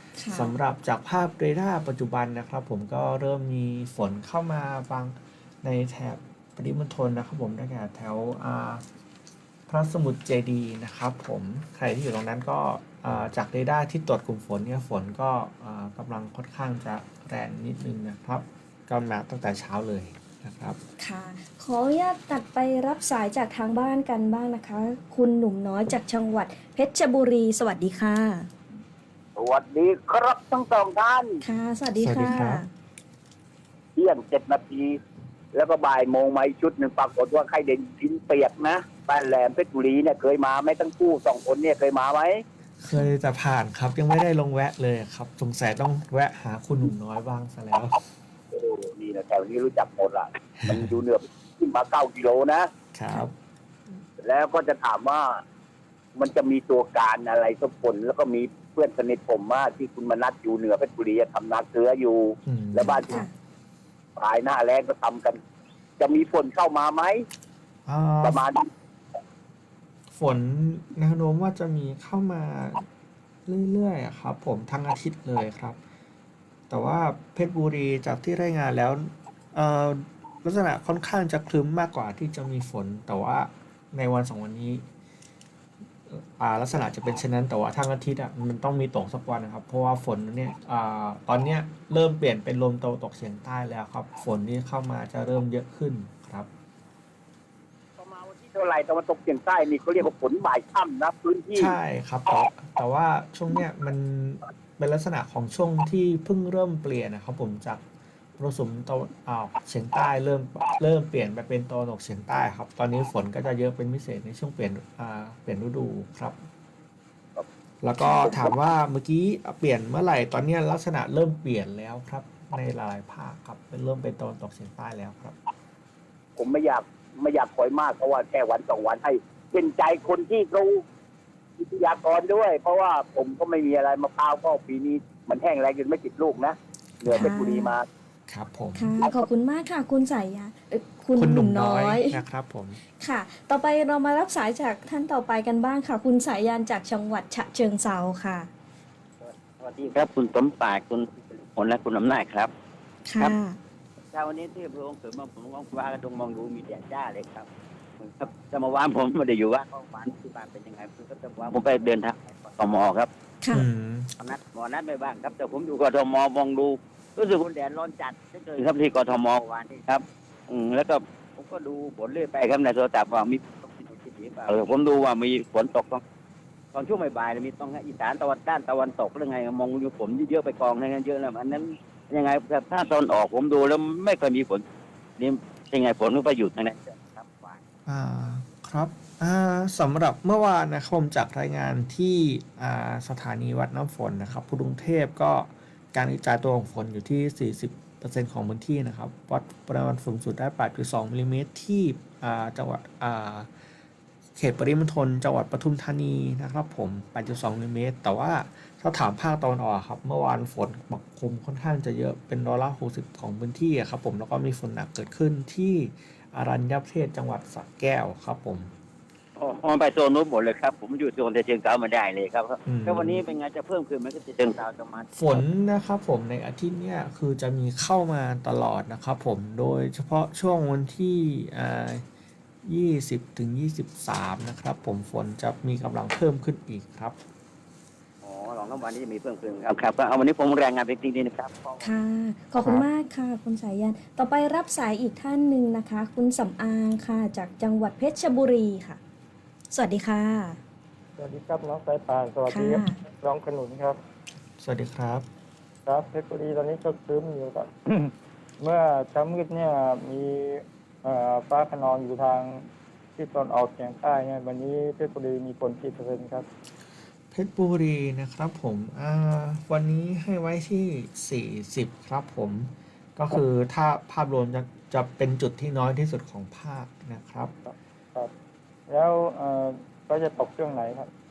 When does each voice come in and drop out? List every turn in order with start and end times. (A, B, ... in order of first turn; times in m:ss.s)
0:00.2-0:00.5 A
0:00.3-0:08.8 B
0:09.7-0:20.8 B
0:21.0-0:28.5 A
0:29.4-0:31.4 C
0:31.4-0:32.7 A
0:32.0-0:32.6 B
0:34.0-0:35.0 C
0:35.5-0:42.4 C
0:42.8-0:48.0 B
0:48.5-0:52.7 C
0:50.6-0:50.9 B
0:52.9-0:53.3 B
0:54.2-0:55.4 C
0:56.2-1:03.2 C
1:02.4-1:03.2 B
1:04.2-1:05.4 C
1:06.0-1:07.2 C
1:07.8-1:08.4 B
1:08.2-1:08.6 C
1:10.1-1:12.8 B
1:13.4-1:15.8 B
1:16.7-1:24.8 B
1:26.1-1:36.5 B
1:38.0-1:41.7 C
1:41.5-1:47.8 B
1:48.4-1:56.4 B
1:57.8-2:05.4 B
1:58.1-1:58.4 C
2:06.4-2:10.8 C
2:11.6-2:17.8 C
2:17.1-2:17.7 A
2:18.3-2:19.1 B
2:18.8-2:22.2 A
2:21.2-2:22.8 B
2:23.0-2:28.5 A
2:29.2-2:32.5 D
2:33.0-2:33.6 A
2:34.1-2:37.5 D
2:38.0-2:43.1 D
2:43.5-2:44.1 B
2:44.2-2:56.0 D
2:56.7-3:04.6 D
3:05.2-3:07.6 D
3:07.8-3:23.5 B
3:24.4-3:38.7 B
3:39.4-3:45.4 D
3:42.6-3:43.2 B
3:45.1-3:52.0 B
3:52.6-3:57.2 B
3:58.2-4:01.9 D
4:01.8-4:09.0 A
4:02.6-4:02.8 B
4:09.7-4:10.6 A
4:11.2-4:14.0 E
4:12.5-4:13.0 A
4:14.6-4:15.2 B
4:15.8-4:22.6 E
4:23.2-4:26.4 E
4:27.3-4:37.5 B
4:37.6-4:38.3 E
4:38.9-4:41.1 E